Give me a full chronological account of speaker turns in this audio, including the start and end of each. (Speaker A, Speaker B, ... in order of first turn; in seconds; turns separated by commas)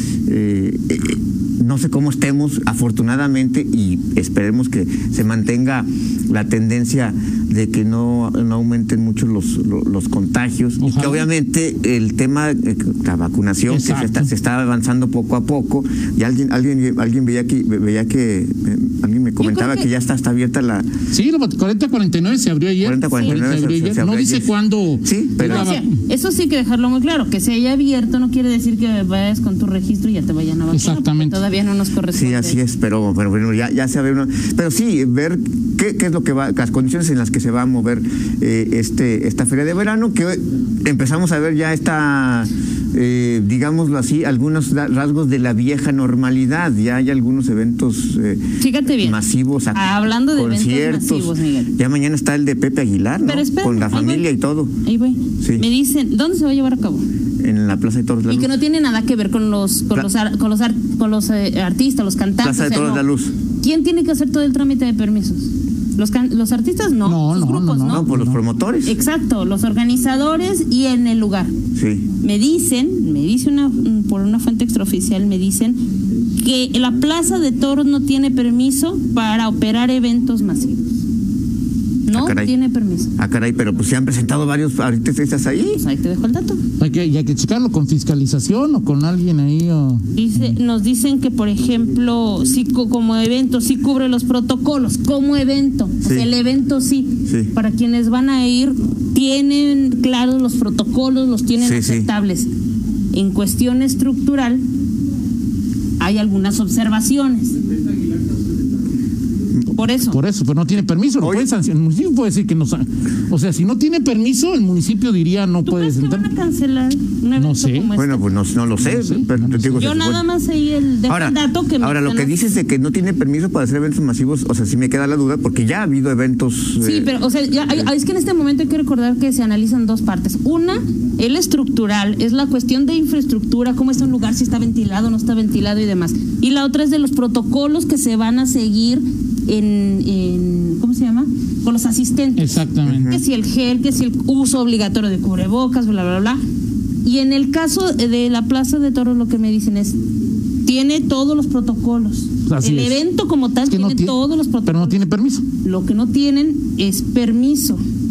Speaker A: 0.3-20.9, Speaker B: 10.8-11.3, Speaker B: 13.7-14.3, Speaker C: 19.4-19.9, Speaker B: 21.1-25.9, Speaker A: 22.8-25.8, Speaker C: 25.4-32.6, Speaker B: 30.7-31.4, Speaker A: 32.1-54.7, Speaker C: 48.6-49.2, Speaker C: 49.7-51.7, Speaker C: 53.2-54.3, Speaker C: 54.9-57.0, Speaker A: 55.4-55.7, Speaker A: 57.4-58.5, Speaker C: 58.3-63.0, Speaker A: 62.4-63.3, Speaker C: 63.6-68.1, Speaker B: 67.0-68.4, Speaker A: 67.9-69.0, Speaker C: 68.9-71.5, Speaker A: 71.8-72.1, Speaker C: 72.2-75.8, Speaker C: 76.4-80.8, Speaker C: 82.1-83.1, Speaker A: 82.1-82.5, Speaker A: 83.2-85.8, Speaker C: 85.7-86.6, Speaker B: 86.8-90.6, Speaker C: 90.2-102.5, Speaker A: 96.0-96.3, Speaker A: 97.3-97.5, Speaker A: 101.6-102.1, Speaker C: 103.1-104.6, Speaker C: 106.0-107.6, Speaker C: 109.7-110.2, Speaker B: 110.1-116.3, Speaker A: 111.2-111.5, Speaker C: 115.7-118.2, Speaker B: 117.4-117.9, Speaker A: 118.0-120.2, Speaker B: 118.8-120.0, Speaker C: 119.8-122.3, Speaker A: 121.1-127.9, Speaker C: 126.8-146.4, Speaker B: 142.4-143.2, Speaker A: 142.8-143.2, Speaker C: 147.0-150.0, Speaker C: 150.7-155.0, Speaker B: 152.5-153.0, Speaker B: 153.7-155.4, Speaker C: 155.6-157.8